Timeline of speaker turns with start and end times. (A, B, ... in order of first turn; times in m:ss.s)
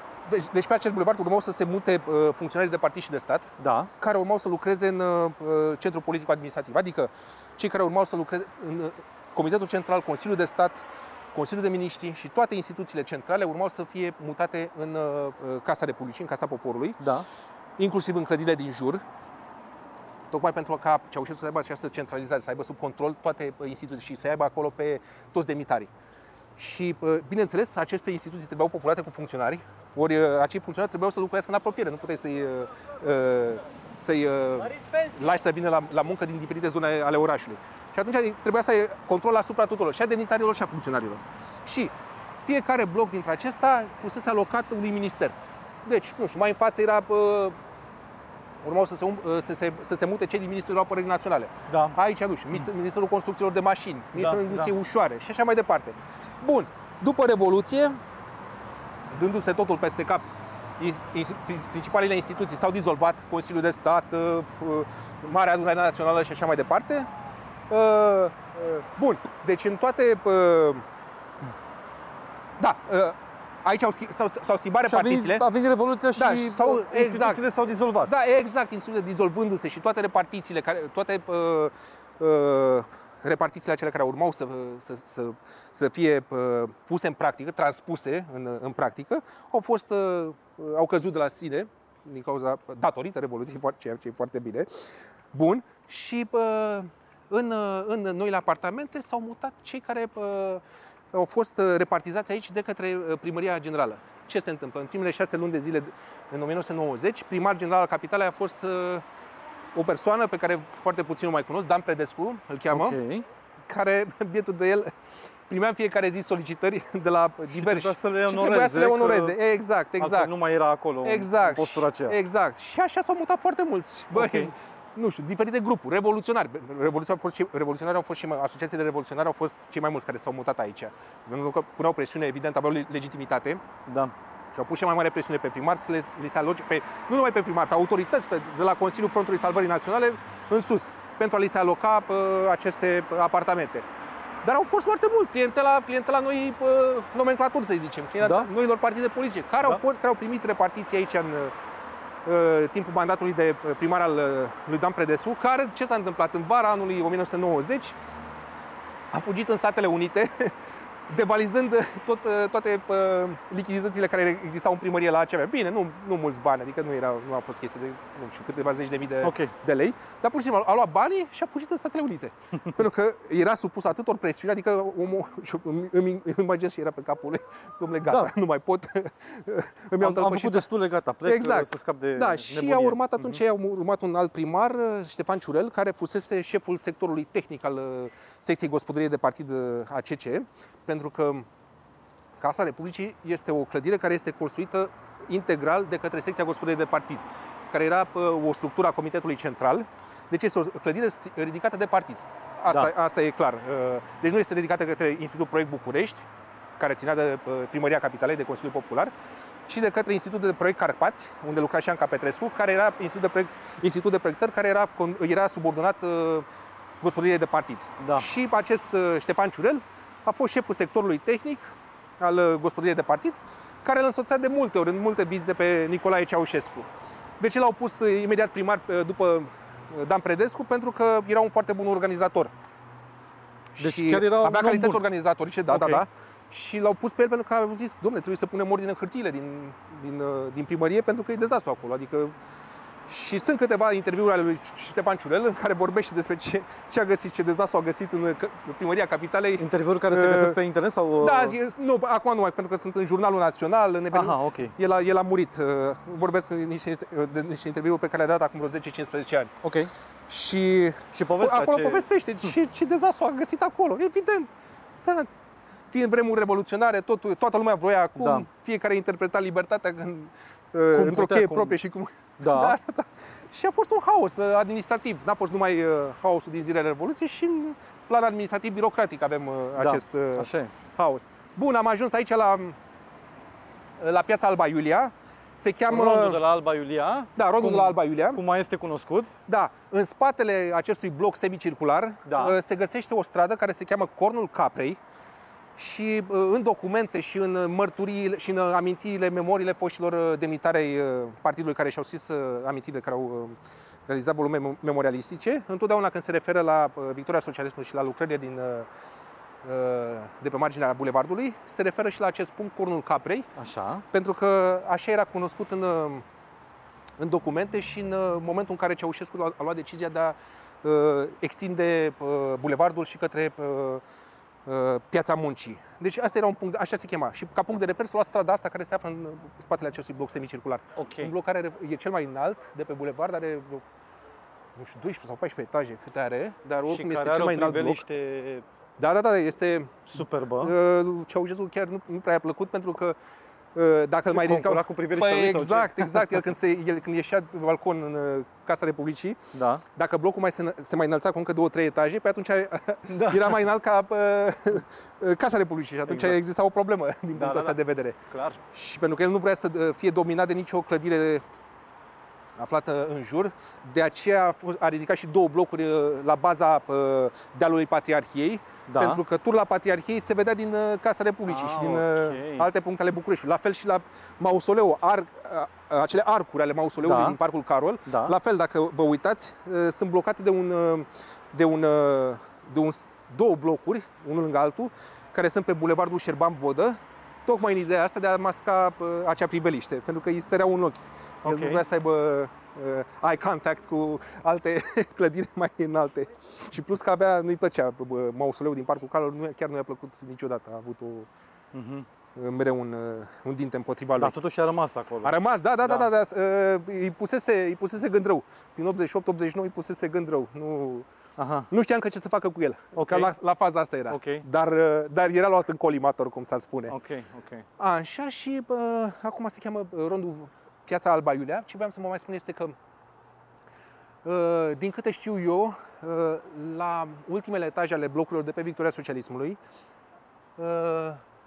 0:00.2-0:17.0 A
0:03.6-0:03.9 B
0:17.0-0:17.2 B
0:17.8-0:19.0 A
0:20.3-0:25.9 A
0:26.6-0:41.9 A
0:42.4-0:47.6 A
0:48.6-0:58.0 A
0:51.7-0:52.0 B
0:54.2-0:54.7 B
0:59.1-1:00.2 A
1:00.8-1:07.1 A
1:07.7-1:10.8 A
1:12.6-1:15.4 A
1:14.8-1:18.1 B
1:16.1-1:17.4 A
1:18.0-1:49.0 A
1:49.7-1:53.0 A
1:52.7-1:53.2 B
1:53.7-1:54.9 A
1:55.5-2:00.3 A
1:57.5-1:59.4 B
2:00.0-2:02.2 B
2:01.0-2:13.6 A
2:04.1-2:04.5 B
2:13.9-2:14.1 B
2:14.5-2:23.8 A
2:24.4-2:31.5 A
2:28.2-2:28.5 B
2:32.2-2:38.0 A
2:39.1-3:00.7 A
2:49.2-2:49.5 B
2:58.0-2:58.3 B
3:00.0-3:03.4 B
3:01.2-3:11.5 A
3:12.4-3:26.2 A
3:26.8-3:29.1 A
3:29.7-3:36.4 A
3:37.0-3:41.7 A
3:38.0-3:38.3 B
3:42.2-3:46.9 A
3:47.4-3:52.5 A
3:53.8-4:02.4 A
3:53.8-3:55.0 B
3:55.7-3:56.0 B
4:03.1-4:10.6 A
4:09.6-4:11.6 B
4:11.2-4:19.5 A
4:14.1-4:14.8 B
4:19.6-4:19.9 B
4:20.3-4:25.3 A
4:21.1-4:22.0 B
4:25.9-4:42.8 A
4:28.2-4:28.4 B
4:30.9-4:31.8 B
4:32.4-4:32.8 B
4:39.8-4:40.7 B
4:44.0-4:46.4 A
4:45.9-4:49.3 B
4:47.4-4:48.4 A
4:49.5-4:55.0 A
4:52.2-4:52.6 B
4:55.8-5:08.9 A
5:09.6-5:13.5 A
5:13.6-5:14.0 B
5:14.1-5:16.2 A
5:17.2-5:24.0 A
5:24.6-5:33.8 A
5:31.0-5:31.3 B
5:34.7-5:38.0 A
5:36.8-5:38.6 B
5:39.0-5:43.2 A
5:40.1-5:40.7 B
5:43.7-5:58.2 A
5:44.3-5:46.4 B
5:49.5-5:49.8 B
5:53.1-5:53.6 B
5:56.1-5:56.4 B
5:57.3-5:57.8 B
5:58.3-5:58.6 B
5:58.7-6:01.4 A
6:02.6-6:41.3 A
6:08.9-6:09.2 B
6:11.4-6:12.7 B
6:17.0-6:17.4 B
6:18.1-6:18.3 B
6:31.4-6:31.8 B
6:41.7-6:42.0 B
6:42.3-6:44.4 A
6:44.2-6:46.1 B
6:45.2-6:51.1 A
6:51.4-6:51.7 B
6:51.7-6:56.9 A
6:53.0-6:53.3 B
6:54.1-6:54.4 B
6:56.9-6:57.6 B
6:57.8-7:02.8 A
7:04.2-7:09.6 A
7:10.6-7:11.2 A